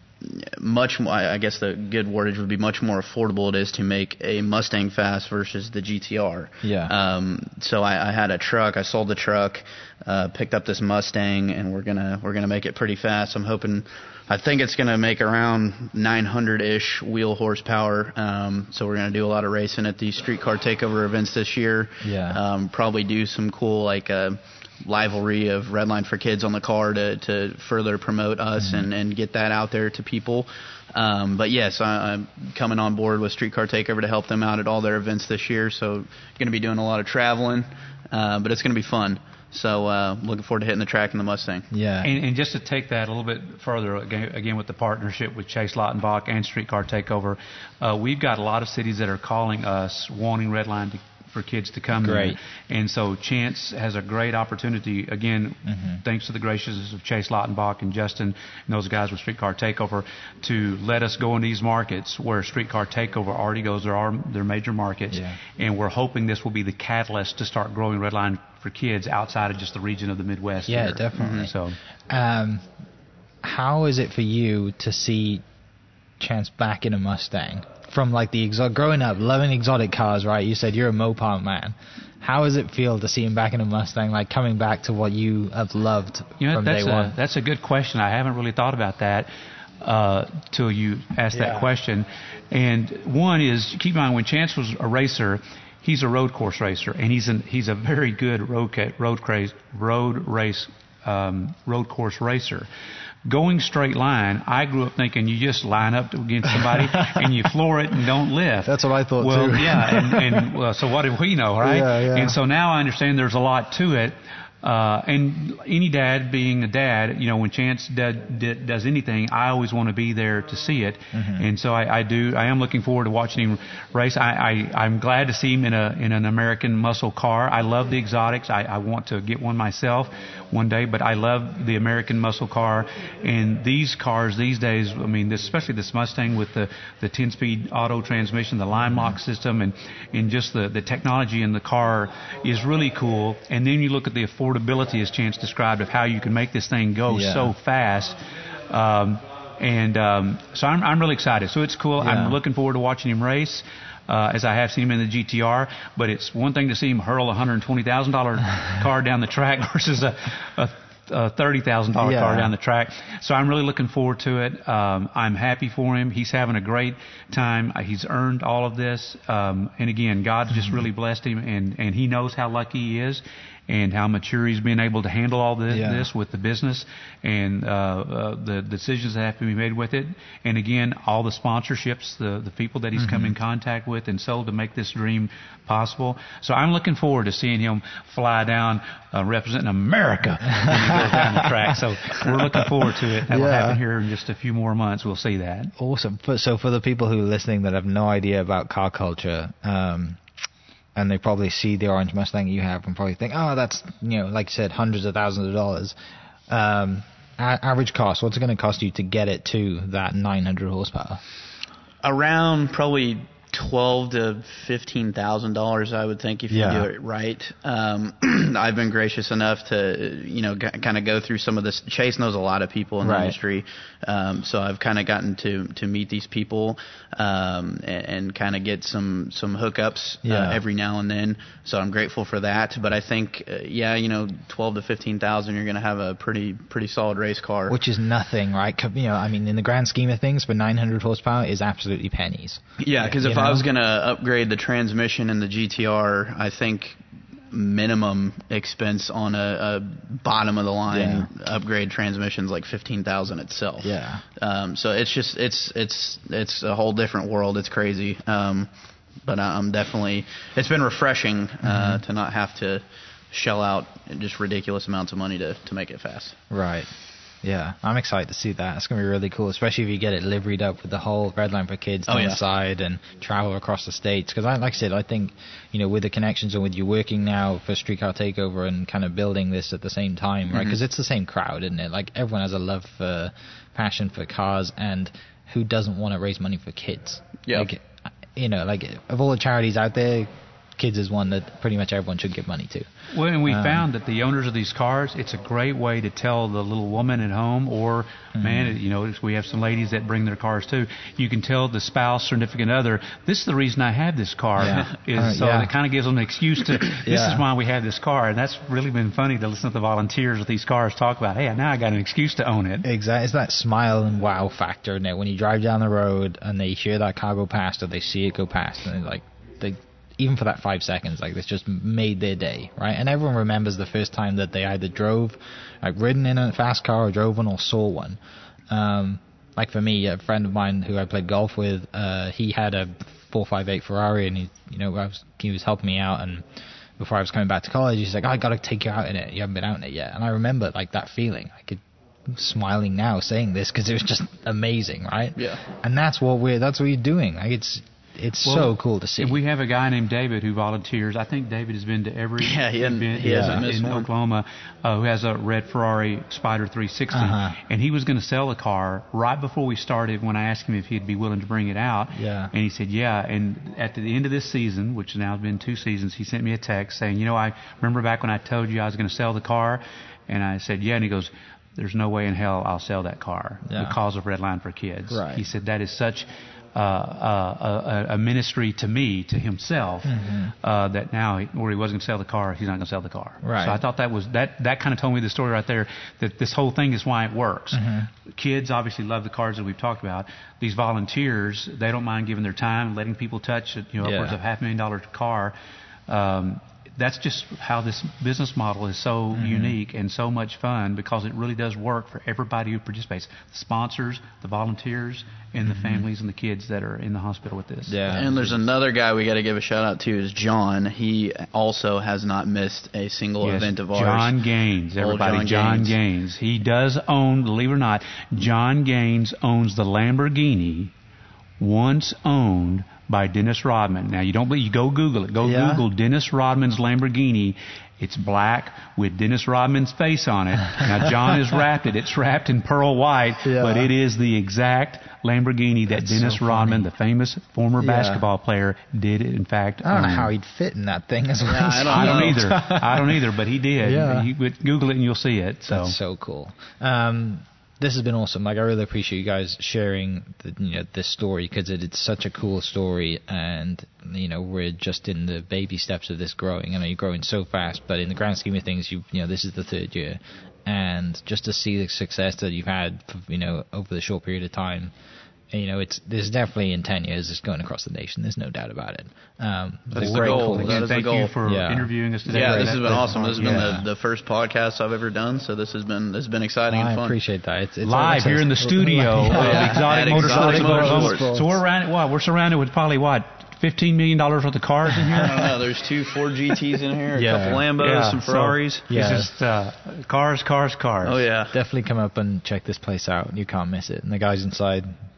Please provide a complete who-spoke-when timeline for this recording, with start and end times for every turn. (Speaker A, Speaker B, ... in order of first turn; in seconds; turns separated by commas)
Speaker A: 0.2-41.7, Speaker B: 6.6-6.9, Speaker B: 22.0-22.4, Speaker B: 28.6-28.9, Speaker B: 41.7-42.1, Speaker C: 42.0-71.8, Speaker B: 52.0-52.4, Speaker B: 55.6-56.0, Speaker B: 65.1-65.4, Speaker B: 70.7-71.5, Speaker A: 71.2-71.5, Speaker B: 72.1-72.7, Speaker B: 73.4-75.4, Speaker B: 76.2-87.1, Speaker C: 86.4-89.3, Speaker C: 89.8-102.7, Speaker B: 91.3-91.7, Speaker C: 103.2-148.2, Speaker B: 106.6-107.3, Speaker B: 108.6-110.5, Speaker B: 111.6-112.4, Speaker B: 121.1-121.5, Speaker B: 138.9-139.1, Speaker B: 147.1-147.5, Speaker C: 148.7-195.7, Speaker B: 152.0-152.4, Speaker B: 162.0-162.5, Speaker B: 175.7-176.1, Speaker B: 183.0-183.3, Speaker B: 190.6-191.7, Speaker B: 192.4-192.7, Speaker B: 193.3-193.8, Speaker B: 195.8-200.2, Speaker B: 200.9-205.9, Speaker B: 206.5-211.2, Speaker A: 212.0-237.8, Speaker B: 216.5-216.9, Speaker B: 223.0-223.4, Speaker B: 230.2-230.6, Speaker B: 237.7-243.7, Speaker A: 242.8-247.0, Speaker A: 247.5-258.7, Speaker B: 250.9-251.3, Speaker B: 253.8-254.2, Speaker A: 259.2-266.4, Speaker B: 261.6-262.0, Speaker B: 266.5-266.9, Speaker B: 267.4-292.9, Speaker A: 272.1-272.4, Speaker A: 280.5-280.8, Speaker C: 293.1-312.9, Speaker B: 293.4-293.9, Speaker B: 298.4-298.8, Speaker B: 304.6-305.7, Speaker B: 307.0-307.4, Speaker B: 312.8-328.2, Speaker B: 328.7-336.4, Speaker B: 337.0-349.4, Speaker A: 345.4-345.6, Speaker C: 348.4-395.5, Speaker A: 352.4-354.1, Speaker B: 353.2-353.6, Speaker B: 357.1-357.6, Speaker B: 362.1-362.5, Speaker B: 373.7-374.0, Speaker B: 375.1-375.5, Speaker B: 380.0-380.5, Speaker B: 383.4-383.8, Speaker B: 387.7-388.1, Speaker B: 394.0-394.4, Speaker C: 396.1-408.2, Speaker B: 399.3-399.7, Speaker B: 405.6-406.1, Speaker B: 407.9-408.6, Speaker A: 408.1-414.4, Speaker C: 413.4-420.9, Speaker A: 415.0-415.9, Speaker C: 421.6-440.3, Speaker B: 425.4-425.8, Speaker B: 433.4-433.9, Speaker B: 435.9-436.9, Speaker B: 437.8-438.2, Speaker B: 439.8-443.3, Speaker A: 441.4-442.5, Speaker C: 441.8-445.9, Speaker B: 443.8-444.3, Speaker B: 445.7-464.9, Speaker B: 465.5-470.9, Speaker C: 469.9-473.7, Speaker A: 469.9-471.3, Speaker B: 471.4-473.9, Speaker A: 472.3-477.1, Speaker B: 476.7-481.6, Speaker C: 477.8-485.5, Speaker A: 479.3-481.3, Speaker A: 485.2-488.9, Speaker B: 487.1-487.6, Speaker C: 487.8-491.2, Speaker B: 488.9-489.3, Speaker A: 491.0-491.5, Speaker B: 491.5-494.9